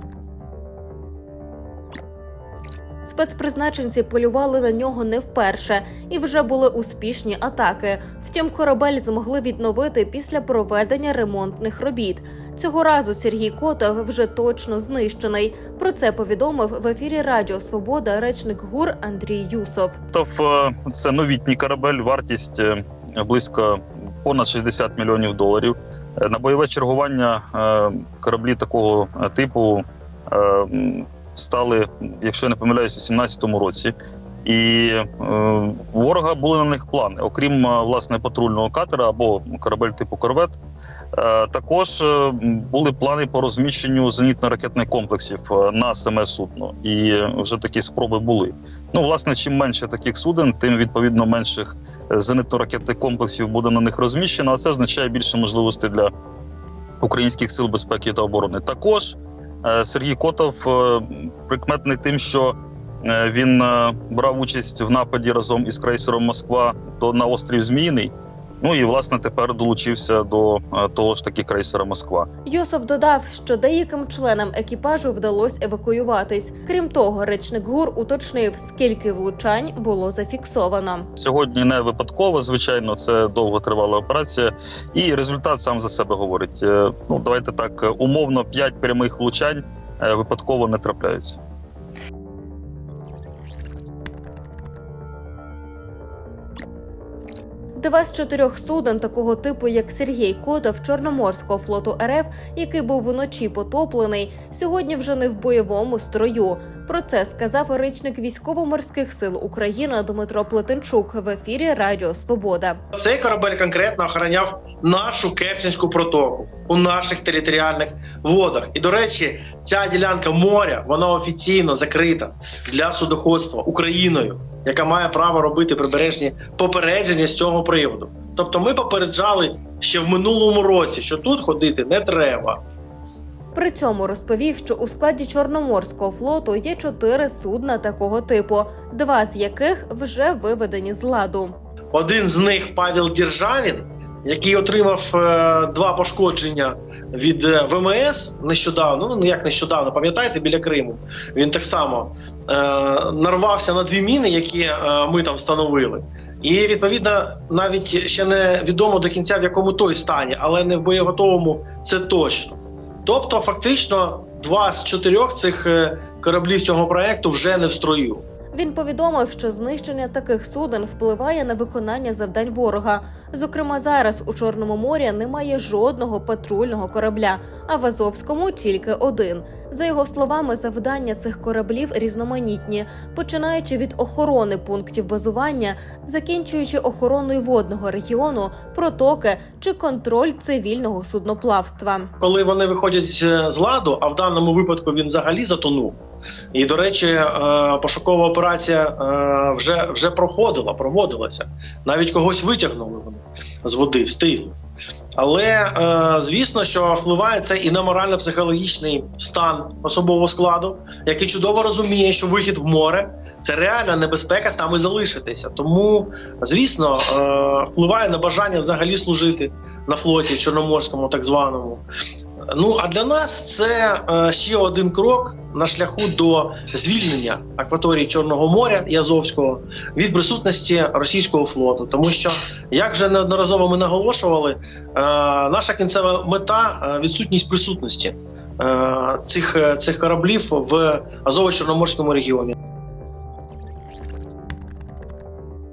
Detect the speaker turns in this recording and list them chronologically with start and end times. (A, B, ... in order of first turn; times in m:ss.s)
0:03.1-0:20.0 A
0:20.1-0:33.9 B
0:34.4-0:40.6 B
0:41.1-0:56.1 B
0:57.0-1:12.3 B
1:12.4-1:21.1 A
1:21.2-1:31.4 B
1:37.8-1:52.8 A
1:52.9-2:12.6 C
2:13.5-2:21.6 A
2:21.9-2:48.2 C
2:48.5-3:12.1 A
3:12.2-3:16.0 C
3:16.5-3:24.6 C
3:25.2-3:41.8 C
3:42.5-4:02.5 C